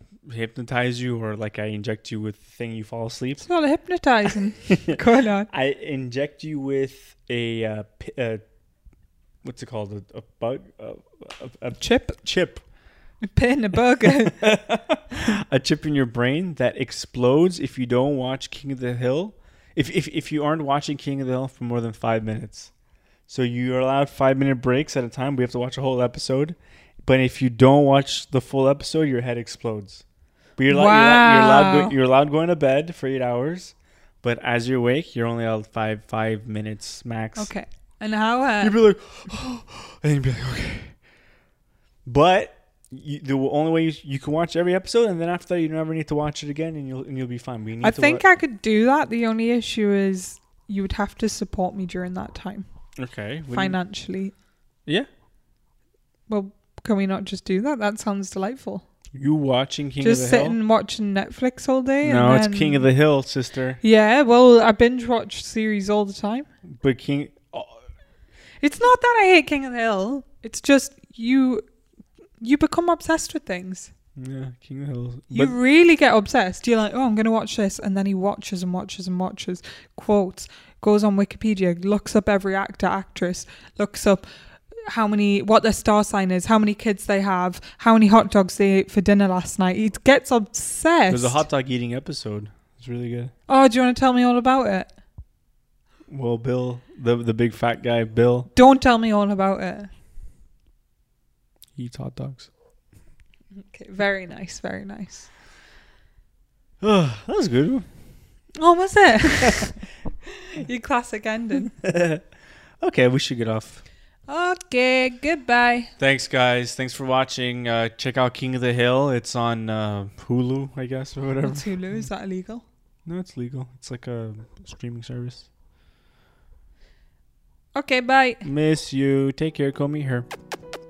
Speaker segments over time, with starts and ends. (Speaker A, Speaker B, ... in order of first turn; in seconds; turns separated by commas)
Speaker A: 0.3-3.4, Speaker B: 3.4-5.5, Speaker A: 4.7-8.4, Speaker A: 9.4-12.6, Speaker B: 11.8-12.2, Speaker B: 13.2-14.5, Speaker A: 14.0-22.7, Speaker A: 23.3-30.0, Speaker A: 30.6-37.5, Speaker B: 30.7-32.0, Speaker B: 37.4-38.8, Speaker A: 38.6-40.9, Speaker A: 42.1-48.2, Speaker B: 47.8-52.7, Speaker A: 53.0-53.8, Speaker B: 53.5-54.3, Speaker B: 56.3-58.9, Speaker A: 59.1-60.6, Speaker B: 60.0-62.9, Speaker A: 62.0-63.8, Speaker B: 63.8-66.5, Speaker A: 66.8-67.8, Speaker B: 68.6-71.6, Speaker B: 72.4-73.9, Speaker A: 74.2-75.6, Speaker B: 75.3-84.3, Speaker B: 84.9-91.4, Speaker A: 91.1-93.3, Speaker B: 93.5-94.9, Speaker A: 96.1-98.5, Speaker B: 98.5-99.9, Speaker A: 101.8-102.5, Speaker B: 103.5-105.3, Speaker A: 106.8-107.9, Speaker B: 108.6-111.7, Speaker A: 109.4-109.7, Speaker A: 111.6-112.2, Speaker A: 112.8-113.8, Speaker B: 114.3-115.9, Speaker A: 116.0-121.8, Speaker B: 121.4-122.6, Speaker A: 123.1-125.5, Speaker B: 127.8-128.4, Speaker A: 128.4-130.3